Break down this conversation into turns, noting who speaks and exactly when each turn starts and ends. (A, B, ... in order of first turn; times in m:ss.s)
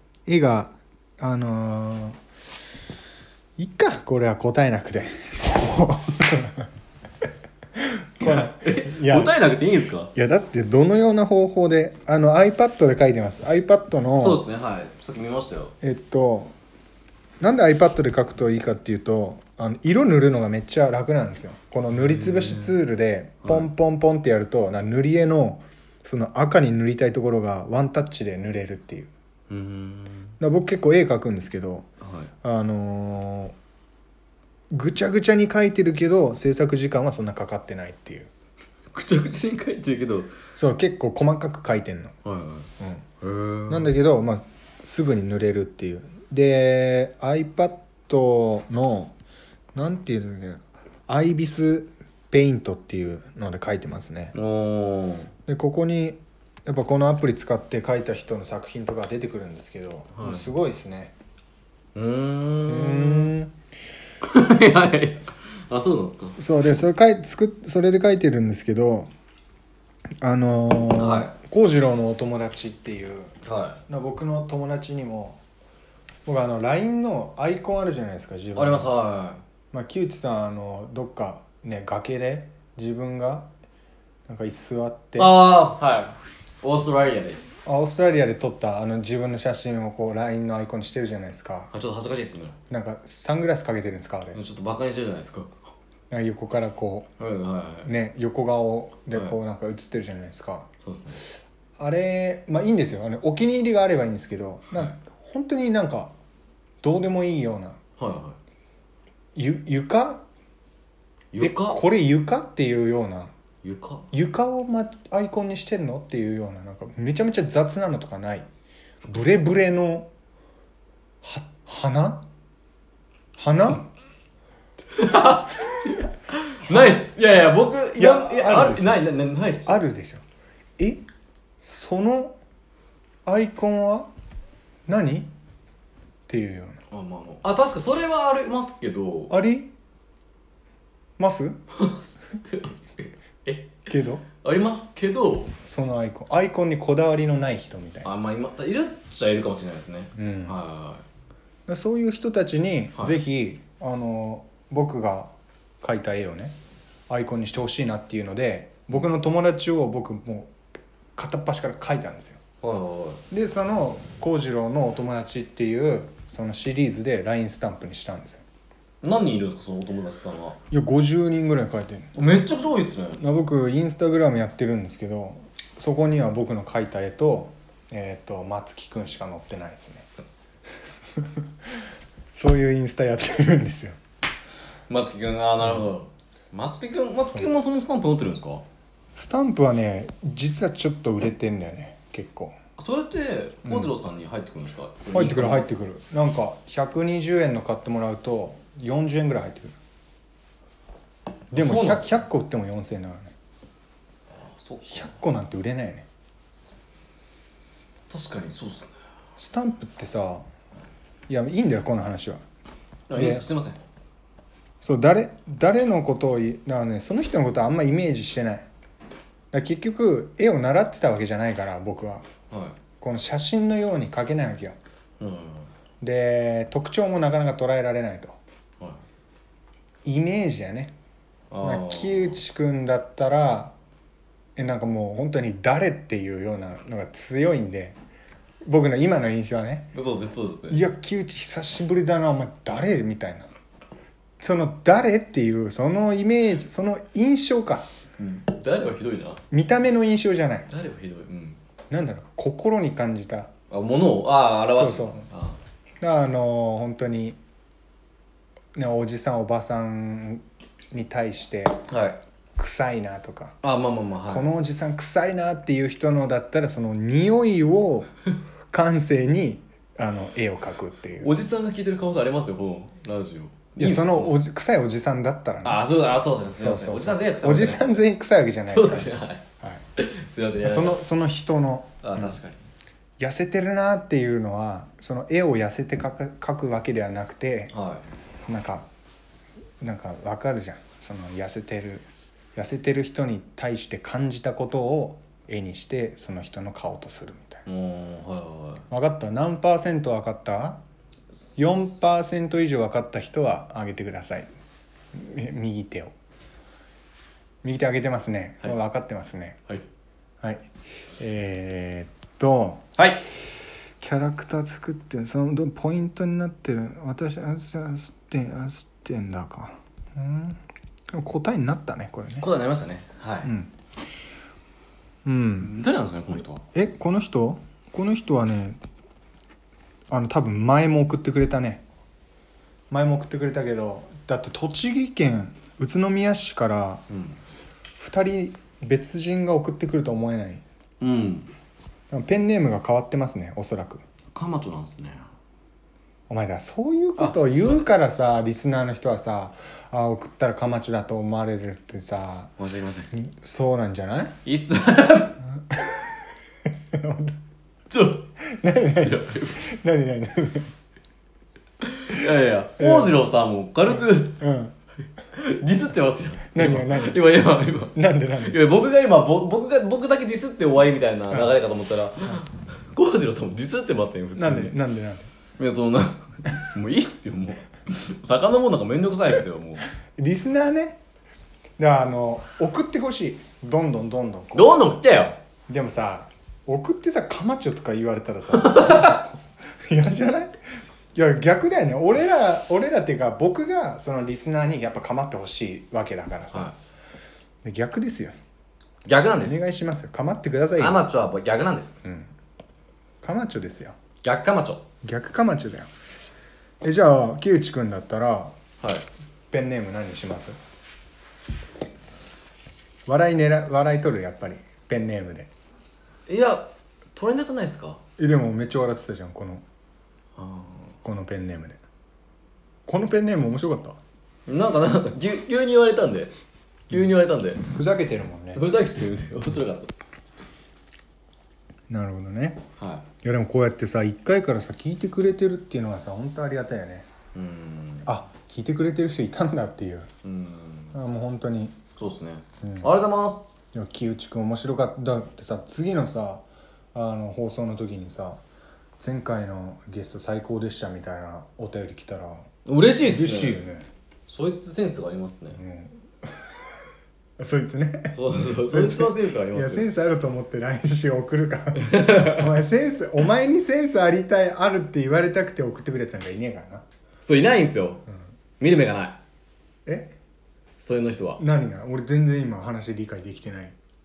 0:00.2-0:02.2 A
0:03.6-0:06.7 A
0:07.8-0:09.4 A
0:08.2-0:10.1 B
0:10.1-0:14.4 A
0:14.2-0:15.7 B
0:15.8-0:16.5 A
0:17.4-0:29.1 A
0:22.0-0:22.7 B
0:23.4-0:23.7 B
0:29.5-0:30.3 B
0:30.4-0:31.9 A
0:32.0-0:32.3 B
0:32.4-0:33.6 A
0:34.7-0:38.3 A
0:38.9-0:40.3 B
0:40.6-0:42.2 A
0:42.2-0:42.7 B
0:43.2-0:43.9 B
0:43.7-0:49.1 A
0:49.7-0:54.3 A
0:54.3-0:55.3 B
0:55.5-1:01.1 A
1:00.1-1:00.5 B
1:01.9-1:03.3 B
1:02.7-1:03.5 A
1:04.2-1:06.4 B
1:06.4-1:09.1 A
1:10.2-1:13.3 A
1:11.0-1:11.3 B
1:13.4-1:13.8 B
1:13.9-1:15.4 A
1:16.2-1:18.9 A
1:18.5-1:19.4 B
1:19.7-1:23.5 A
1:24.3-1:25.4 A
1:25.2-1:27.6 B
1:27.6-1:31.7 A
1:31.7-1:32.6 B
1:32.7-1:34.4 A
1:34.3-1:35.5 B
1:36.1-1:37.1 A
1:37.2-1:37.9 B
1:37.8-1:40.7 A
1:40.8-1:41.2 B
1:41.8-1:46.1 A
1:46.8-1:47.8 A
1:48.0-1:48.4 B
1:49.3-1:50.2 A
1:51.3-1:51.8 B
1:51.4-1:53.3 A
1:53.6-1:54.0 B
1:54.1-1:58.5 A
1:59.0-2:00.1 A
2:01.2-2:02.2 A
2:03.4-2:03.8 A
2:04.9-2:09.8 B
2:08.0-2:09.1 A
2:09.6-2:10.2 A
2:10.8-2:11.0 A
2:11.6-2:12.4 A
2:13.2-2:14.1 A
2:14.9-2:15.3 A
2:16.3-2:16.8 A
2:16.9-2:19.3 B
2:19.3-2:19.7 A
2:21.2-2:21.6 A
2:21.7-2:25.5 B
2:23.9-2:24.2 A
2:25.7-2:28.1 A
2:28.0-2:31.0 B
2:30.1-2:30.6 A
2:31.7-2:36.6 A
2:37.1-2:40.5 A
2:41.2-2:42.4 A
2:42.6-2:43.2 B
2:43.3-2:48.4 A
2:49.0-2:50.6 B
2:50.7-2:52.2 A
2:52.2-2:53.2 B
2:53.2-3:00.1 A
3:01.2-3:01.4 A
3:02.3-3:04.0 A
3:04.9-3:08.6 B
3:09.2-3:12.6 A
3:12.8-3:15.7 B
3:13.6-3:13.9 A
3:15.1-3:19.8 A
3:21.5-3:22.1 B
3:21.5-3:23.3 A
3:24.5-3:25.1 B
3:24.9-3:26.1 A
3:28.1-3:28.9 B
3:29.4-3:30.4 A
3:31.3-3:32.4 A
3:33.1-3:33.8 B
3:33.1-3:33.4 A
3:34.8-3:38.7 A
3:39.5-3:42.2 A
3:42.5-3:42.8 B
3:43.0-3:44.8 A
3:45.2-3:45.7 B
3:46.0-3:48.4 A
3:50.0-3:50.9 A
3:51.5-3:52.4 B
3:51.6-3:53.7 A
3:54.6-3:58.0 A
3:58.6-3:59.9 A
3:59.9-4:00.8 B
4:00.7-4:03.5 A
4:04.4-4:07.8 A
4:08.2-4:09.4 B
4:09.5-4:10.7 A
4:10.7-4:11.6 B
4:11.9-4:13.5 A
4:13.7-4:15.6 B
4:14.7-4:15.2 A
4:16.0-4:17.4 A
4:18.7-4:21.8 A
4:21.9-4:22.2 B
4:22.6-4:23.6 A
4:23.6-4:24.5 B
4:24.3-4:28.1 A
4:28.7-4:31.3 A
4:31.2-4:34.4 B
4:33.8-4:35.8 A
4:35.6-4:37.9 B
4:36.6-4:39.8 A
4:38.7-4:39.4 B
4:40.0-4:41.0 B
4:40.6-4:42.4 A
4:42.0-4:42.6 B
4:43.2-4:47.7 A
4:47.7-4:48.0 B
4:48.4-4:48.9 A
4:49.8-4:57.6 A
4:57.6-4:58.8 B
4:58.9-5:00.8 A
5:01.6-5:04.5 A
5:05.1-5:06.1 A
5:07.6-5:09.6 A
5:10.4-5:12.9 A
5:14.0-5:22.5 A
5:22.4-5:23.5 B
5:23.4-5:23.7 A
5:25.2-5:25.8 A
5:25.6-5:26.6 B
5:26.7-5:28.8 A
5:30.1-5:31.8 A
5:32.9-5:37.0 A
5:37.1-5:37.4 B
5:38.0-5:40.6 A
5:41.0-5:41.5 B
5:42.1-5:44.0 A
5:44.3-5:45.2 B
5:46.3-5:52.5 A
5:47.2-5:47.9 B
5:52.6-5:53.2 B
5:53.1-5:54.4 A
5:54.4-5:55.4 B
5:55.6-5:56.1 A
5:56.9-5:57.4 A
5:57.9-5:58.3 B
5:58.5-6:00.7 A
5:59.0-5:59.6 B
6:01.8-6:04.4 B
6:02.8-6:03.2 A
6:03.9-6:04.7 A
6:05.3-6:14.8 B
6:06.5-6:07.2 A
6:07.9-6:08.6 A
6:14.4-6:15.3 A
6:15.6-6:19.9 B
6:20.2-6:21.0 A
6:21.8-6:24.8 A
6:24.5-6:25.4 B
6:25.7-6:30.6 A
6:28.5-6:29.2 B
6:31.1-6:36.7 A
6:37.6-6:38.3 A
6:39.0-6:39.6 B
6:39.4-6:41.0 A
6:40.8-6:42.0 B
6:42.0-6:42.3 A
6:43.2-6:44.0 A
6:44.2-6:44.8 B
6:45.0-6:45.9 A
6:46.8-6:48.6 A
6:48.8-6:49.0 B
6:49.5-6:50.6 A
6:53.0-6:55.5 A
6:56.3-6:58.0 B
6:58.2-6:59.6 A
7:00.4-7:00.9 B
7:01.0-7:01.8 A
7:02.8-7:04.0 A
7:04.5-7:06.3 B
7:06.9-7:07.6 B
7:07.6-7:08.6 A
7:08.5-7:09.9 B
7:11.9-7:12.6 A
7:12.8-7:13.0 B
7:13.2-7:17.1 A
7:17.3-7:18.1 B
7:18.0-7:20.1 A
7:20.2-7:21.0 B
7:20.9-7:21.8 A
7:22.0-7:23.6 B
7:22.6-7:22.9 A
7:23.7-7:28.4 A
7:29.0-7:32.5 A
7:32.6-7:33.6 B
7:33.0-7:33.9 A
7:34.3-7:35.6 B
7:35.6-7:36.5 A
7:37.4-7:46.8 A
7:38.1-7:39.9 B
7:41.8-7:42.5 B
7:47.2-7:48.0 B
7:48.6-7:49.2 B
7:49.8-7:50.1 A
7:50.8-7:51.4 B
7:51.4-7:53.7 A